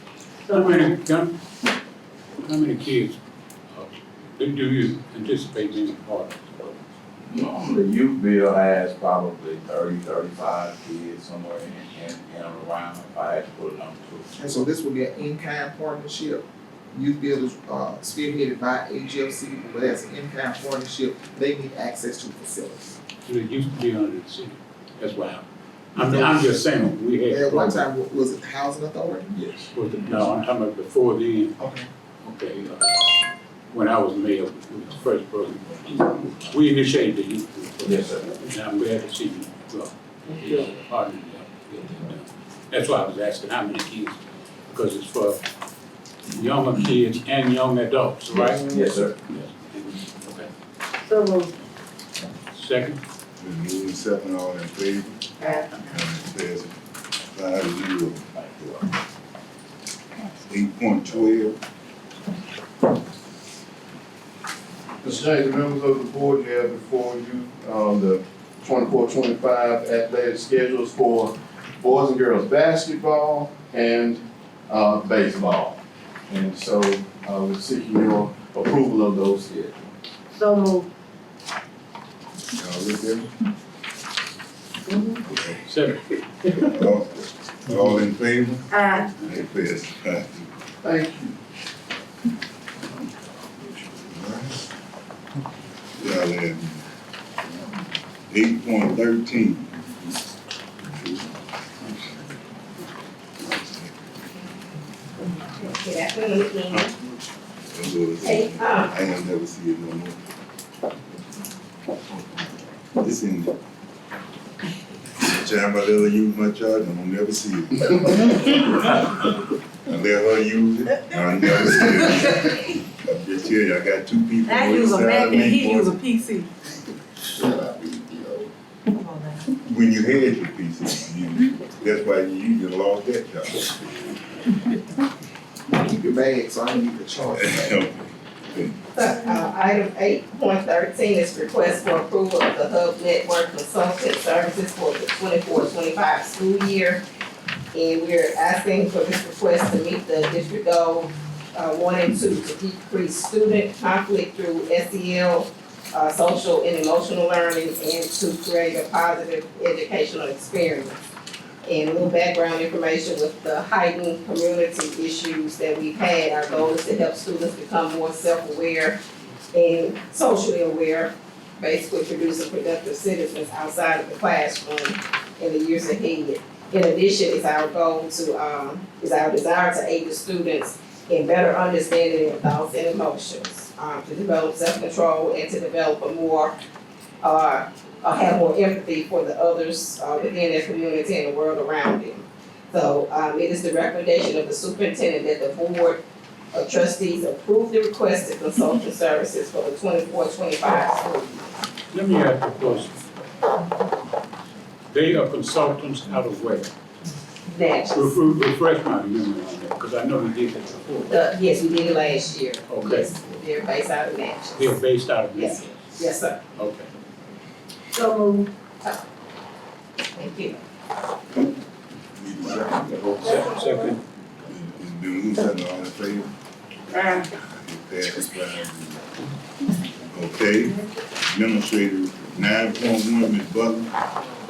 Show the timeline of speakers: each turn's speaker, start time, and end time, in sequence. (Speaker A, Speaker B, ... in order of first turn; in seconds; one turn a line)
Speaker A: 0.5-1.0
Speaker B: 0.5-1.4
Speaker B: 2.4-3.2
Speaker B: 3.7-6.7
Speaker C: 7.3-14.3
Speaker D: 14.3-23.0
Speaker B: 23.2-27.8
Speaker D: 25.9-26.4
Speaker D: 27.3-29.4
Speaker C: 29.4-30.2
Speaker B: 29.7-31.6
Speaker D: 31.6-31.9
Speaker B: 32.2-33.1
Speaker B: 33.7-45.4
Speaker C: 37.8-38.4
Speaker B: 46.3-48.7
Speaker C: 48.3-49.3
Speaker A: 51.0-51.5
Speaker B: 52.5-53.0
Speaker E: 53.4-55.2
Speaker A: 55.4-55.8
Speaker E: 55.9-56.8
Speaker E: 57.3-58.2
Speaker C: 58.4-58.7
Speaker E: 60.5-61.6
Speaker F: 65.0-79.8
Speaker A: 80.3-80.9
Speaker E: 82.6-83.3
Speaker A: 84.9-85.2
Speaker E: 85.2-85.6
Speaker B: 85.7-86.0
Speaker E: 86.5-90.5
Speaker A: 88.7-89.1
Speaker F: 90.8-91.4
Speaker E: 94.1-94.5
Speaker E: 96.0-96.8
Speaker E: 98.3-100.3
Speaker E: 101.0-101.3
Speaker G: 105.5-106.9
Speaker E: 107.7-110.2
Speaker G: 108.2-108.9
Speaker E: 113.0-113.5
Speaker E: 115.2-118.3
Speaker E: 119.9-125.8
Speaker A: 124.4-126.5
Speaker A: 129.0-129.4
Speaker E: 129.6-133.7
Speaker D: 135.7-137.8
Speaker E: 137.6-138.0
Speaker G: 138.9-147.0
Speaker G: 147.7-161.0
Speaker G: 161.6-169.0
Speaker G: 169.5-186.6
Speaker G: 187.2-196.0
Speaker G: 196.5-201.6
Speaker B: 201.9-203.0
Speaker B: 204.9-206.7
Speaker G: 207.5-208.2
Speaker B: 207.9-211.1
Speaker G: 211.1-214.8
Speaker B: 212.7-213.1
Speaker B: 214.6-215.6
Speaker G: 215.3-216.4
Speaker B: 216.6-216.9
Speaker A: 217.9-218.5
Speaker G: 220.2-220.6
Speaker E: 222.2-223.0
Speaker B: 223.0-224.0
Speaker E: 224.5-226.3
Speaker E: 227.5-229.1
Speaker E: 230.1-233.9